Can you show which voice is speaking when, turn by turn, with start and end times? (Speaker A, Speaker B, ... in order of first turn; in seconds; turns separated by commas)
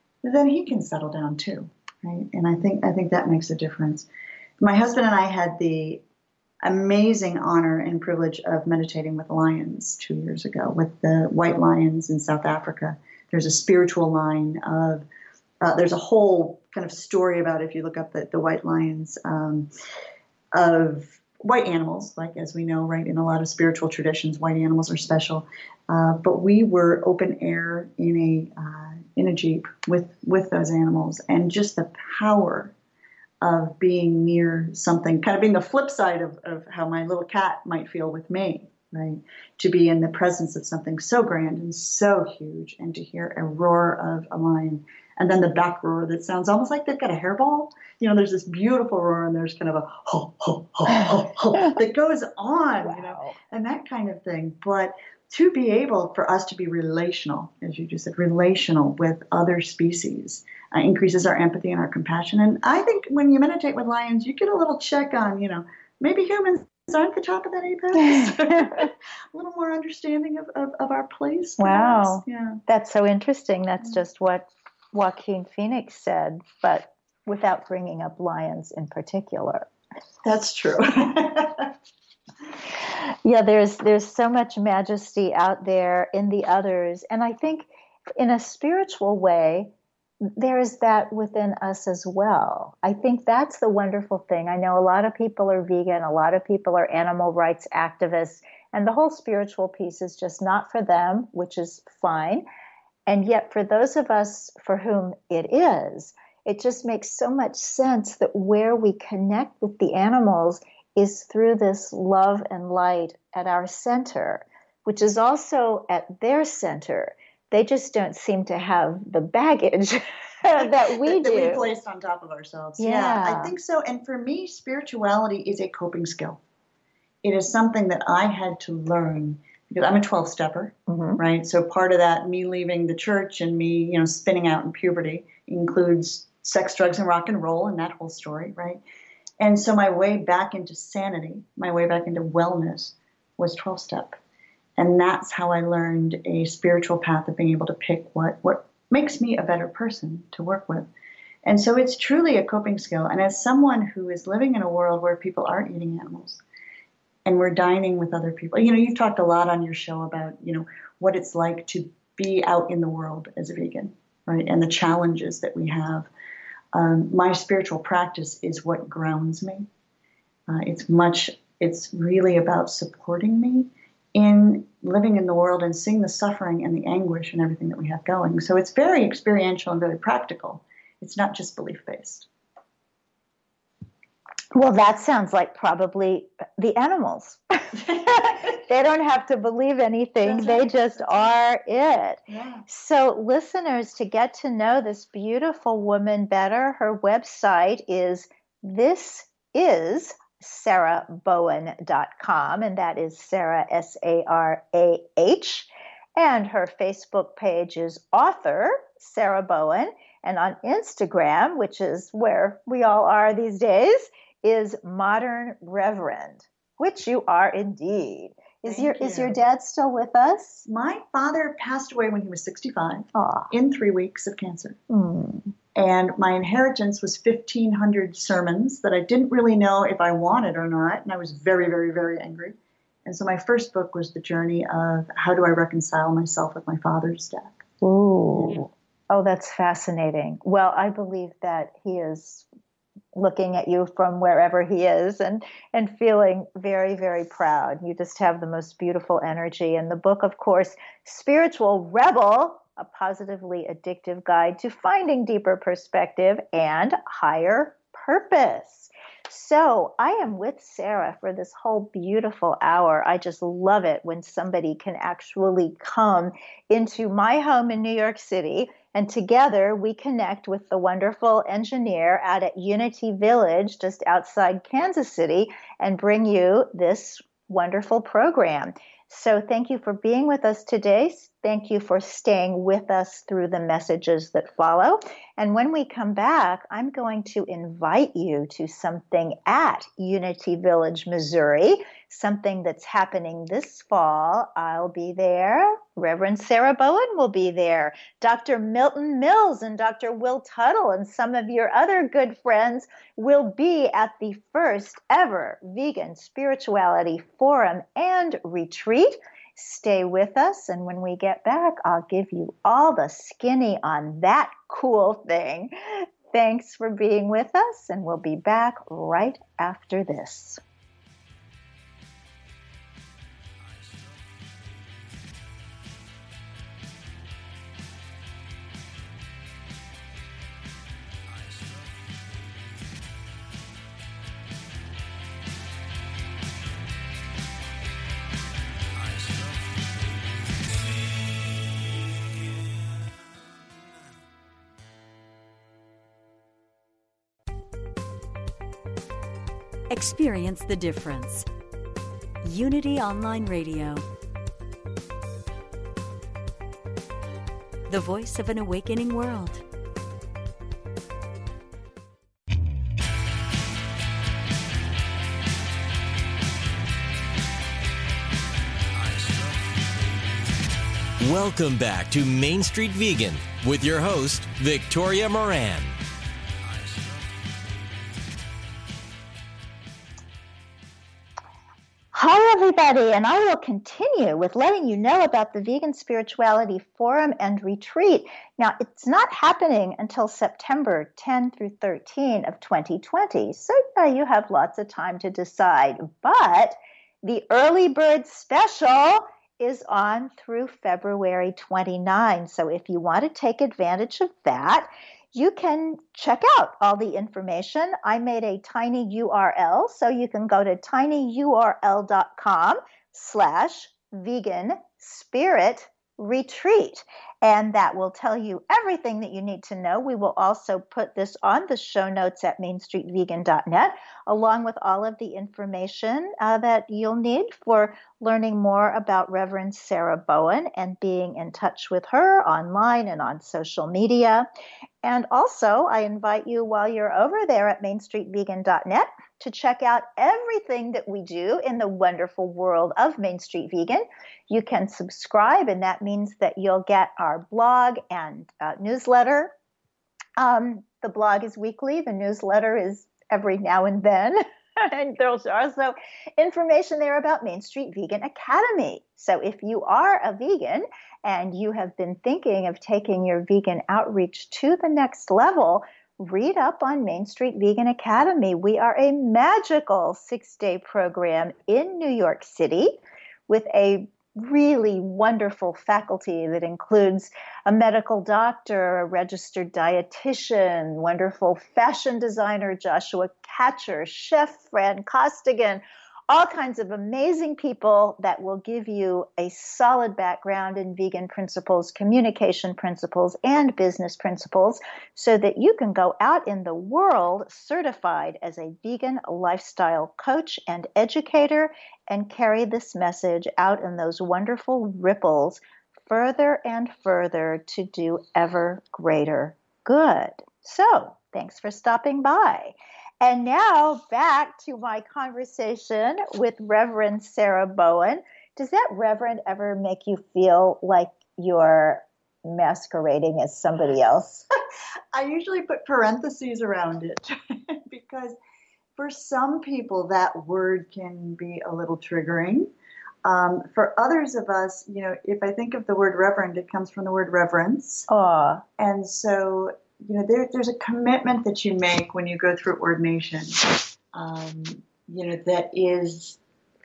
Speaker A: 0.2-4.1, Speaker A: 4.6-6.0, Speaker A: 6.6-15.1, Speaker A: 15.6-19.7, Speaker A: 20.5-32.7, Speaker A: 33.4-72.6, Speaker B: 52.9-53.4, Speaker B: 68.0-68.9, Speaker B: 71.6-79.7, Speaker A: 80.2-81.7, Speaker B: 82.8-89.7, Speaker B: 90.2-102.5, Speaker B: 103.1-121.7, Speaker A: 120.6-126.4, Speaker B: 122.8-123.5, Speaker A: 127.2-138.8, Speaker B: 130.9-131.2, Speaker A: 139.4-144.2, Speaker A: 144.8-150.9, Speaker A: 151.4-156.4, Speaker A: 157.2-166.1, Speaker A: 166.7-169.7, Speaker A: 170.5-182.3, Speaker B: 184.5-220.7, Speaker A: 190.2-191.3, Speaker A: 192.3-192.7, Speaker A: 218.7-219.4, Speaker A: 220.7-224.8, Speaker B: 223.2-223.5, Speaker B: 224.9-225.5, Speaker A: 225.8-237.6, Speaker B: 237.8-242.4, Speaker B: 243.1-320.6, Speaker C: 349.9-351.5, Speaker C: 352.4-354.1, Speaker C: 357.9-359.6, Speaker D: 369.2-369.5, Speaker D: 371.2-376.0, Speaker B: 382.1-434.5, Speaker B: 435.0-449.5, Speaker B: 450.4-524.4, Speaker A: 525.1-528.4, Speaker A: 529.0-532.7, Speaker A: 533.2-538.1, Speaker B: 538.1-538.6, Speaker A: 538.8-546.4